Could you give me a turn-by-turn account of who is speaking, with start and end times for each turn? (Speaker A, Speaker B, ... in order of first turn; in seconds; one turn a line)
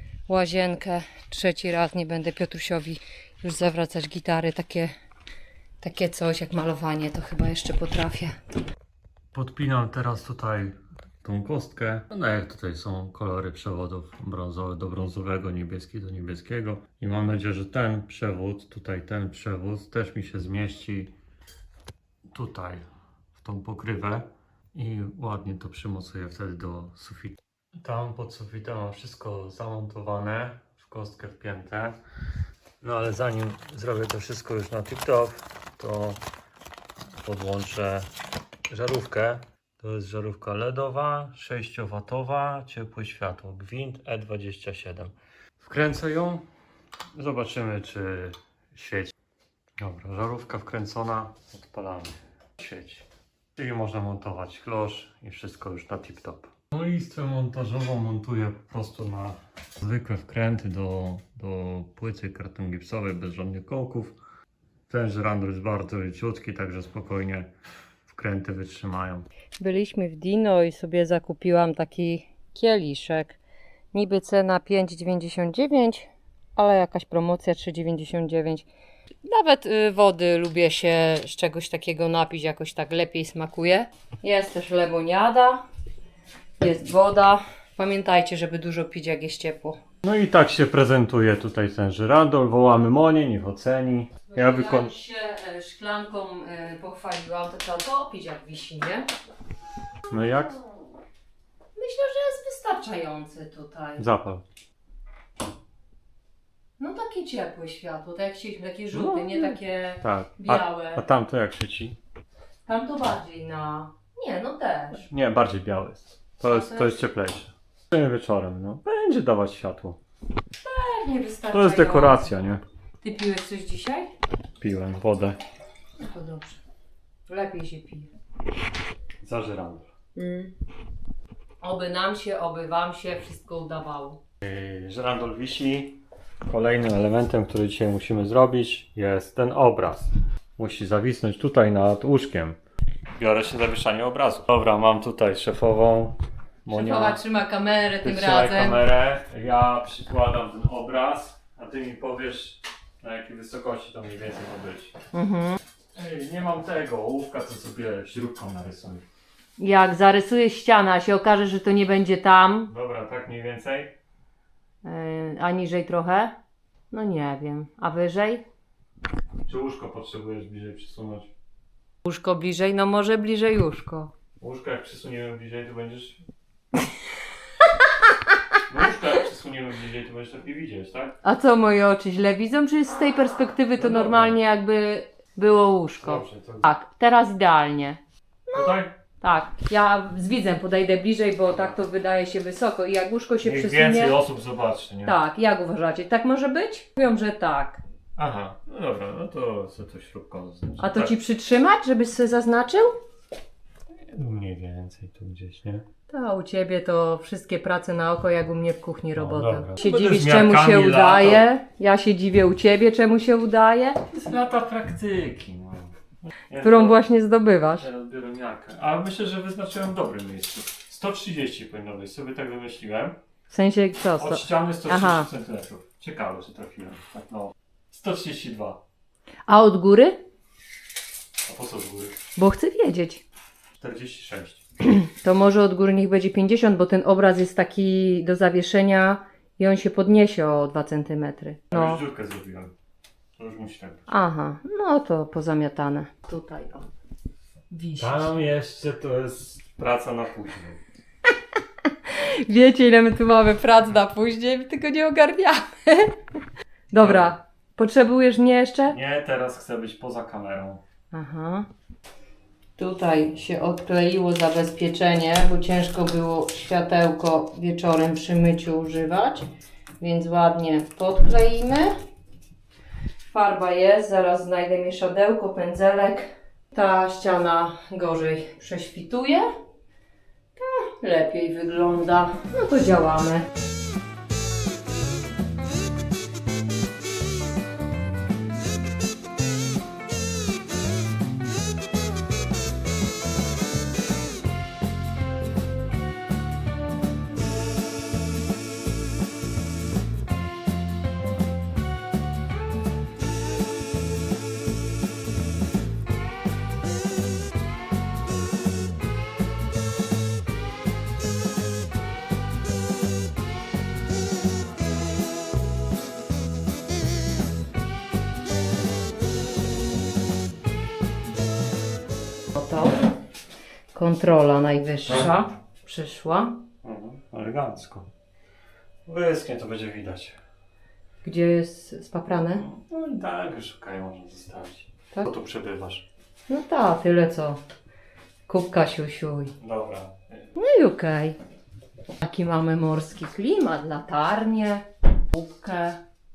Speaker A: 0.3-4.9
Speaker A: 5.8-8.4
Speaker B: 9.3-21.1
Speaker B: 22.3-32.0
Speaker B: 32.8-36.2
Speaker B: 37.2-38.1
Speaker B: 38.7-46.5
Speaker B: 47.1-49.1
Speaker B: 49.8-53.0
Speaker B: 53.5-64.2
Speaker B: 64.9-67.5
Speaker B: 68.1-69.3
Speaker A: 69.6-73.4
Speaker A: 73.9-78.7
Speaker A: 79.2-85.6
Speaker A: 86.6-89.8
Speaker B: 90.0-94.9
Speaker A: 94.3-99.1
Speaker B: 100.1-100.6
Speaker A: 101.8-104.0
Speaker B: 104.0-104.4
Speaker A: 106.8-111.0
Speaker B: 108.9-112.0
Speaker A: 112.7-115.1
Speaker B: 115.0-120.0
Speaker A: 116.4-117.0
Speaker A: 120.6-122.3
Speaker B: 121.5-122.6
Speaker A: 123.0-124.1
Speaker B: 124.6-125.4
Speaker A: 126.0-126.6
Speaker A: 127.3-128.1
Speaker B: 129.2-129.9
Speaker A: 130.2-130.5
Speaker A: 131.6-134.2
Speaker B: 134.4-142.6
Speaker B: 143.1-147.2
Speaker A: 146.7-148.8
Speaker B: 148.0-154.9
Speaker A: 155.1-155.6
Speaker B: 155.9-159.0
Speaker A: 159.6-162.7
Speaker B: 162.7-163.9
Speaker A: 164.8-166.3
Speaker A: 166.9-168.4
Speaker B: 169.4-171.3
Speaker A: 172.0-174.1
Speaker B: 174.4-176.2
Speaker B: 178.7-181.2
Speaker A: 181.2-194.2
Speaker B: 183.8-184.4
Speaker B: 186.0-186.7
Speaker B: 188.5-188.9
Speaker B: 193.4-195.1
Speaker A: 195.0-197.8
Speaker B: 198.2-201.1
Speaker A: 200.8-203.0
Speaker B: 204.1-205.8
Speaker A: 206.1-214.0
Speaker B: 209.1-211.4
Speaker B: 214.1-217.0
Speaker A: 216.6-217.9
Speaker B: 217.8-223.2
Speaker A: 223.5-225.3
Speaker B: 224.2-228.8
Speaker A: 229.5-230.2
Speaker B: 231.4-232.2
Speaker A: 232.3-233.2
Speaker B: 233.8-234.6
Speaker A: 234.8-242.0
Speaker B: 241.7-242.7
Speaker B: 243.4-244.1
Speaker A: 244.1-246.9
Speaker A: 247.7-248.4
Speaker B: 248.0-250.8
Speaker A: 251.9-256.2
Speaker A: 256.9-259.0
Speaker B: 257.0-257.3
Speaker B: 258.9-260.8
Speaker A: 261.1-261.7
Speaker A: 262.8-269.5
Speaker A: 270.0-271.9
Speaker A: 273.3-279.5
Speaker A: 280.6-283.5
Speaker A: 322.5-323.1
Speaker A: 323.9-326.6
Speaker B: 326.8-328.1
Speaker B: 329.1-330.4
Speaker A: 331.2-332.6
Speaker B: 332.6-336.0
Speaker A: 336.5-337.6
Speaker A: 338.5-339.5
Speaker B: 339.6-340.5
Speaker A: 340.6-341.4
Speaker A: 342.2-346.0